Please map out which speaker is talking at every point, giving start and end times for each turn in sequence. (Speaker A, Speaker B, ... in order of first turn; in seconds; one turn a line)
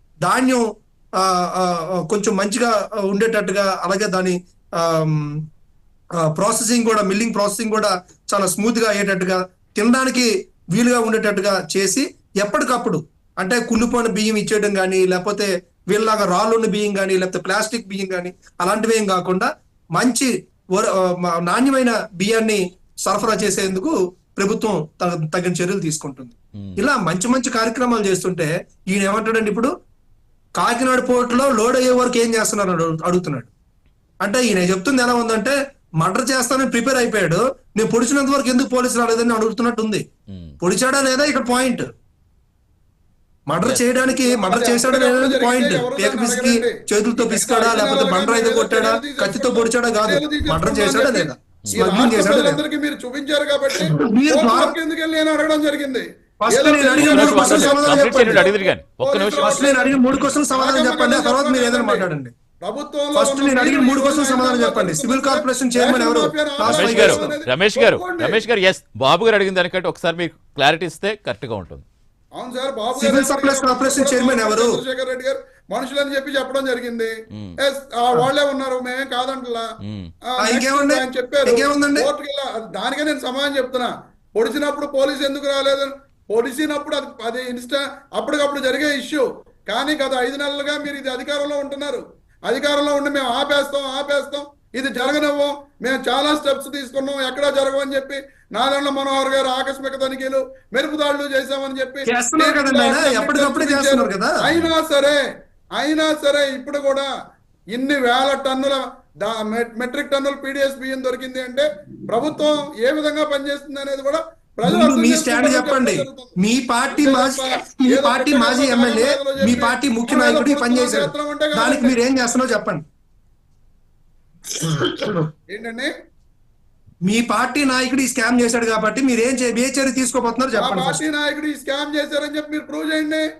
Speaker A: 0.2-0.6
Speaker A: 1.2-5.3
Speaker A: 6.2-29.7
Speaker B: 26.6-26.8
Speaker A: 30.6-33.5
Speaker A: 34.2-40.0
Speaker B: 40.3-40.6
Speaker A: 40.6-41.9
Speaker A: 43.5-52.6
Speaker C: 44.1-60.0
Speaker A: 53.8-54.7
Speaker A: 56.4-58.5
Speaker B: 57.0-60.3
Speaker A: 59.4-62.3
Speaker C: 60.5-62.1
Speaker C: 62.6-68.4
Speaker A: 63.1-67.3
Speaker B: 66.6-71.8
Speaker C: 72.4-79.7
Speaker A: 73.0-74.7
Speaker B: 79.8-80.1
Speaker C: 80.2-105.2
Speaker A: 80.4-82.1
Speaker A: 102.1-104.4
Speaker C: 105.8-107.1
Speaker C: 107.7-116.3
Speaker A: 114.7-122.8
Speaker C: 117.0-122.0
Speaker A: 124.6-125.3
Speaker C: 125.5-125.9
Speaker A: 127.1-131.0
Speaker C: 130.5-133.2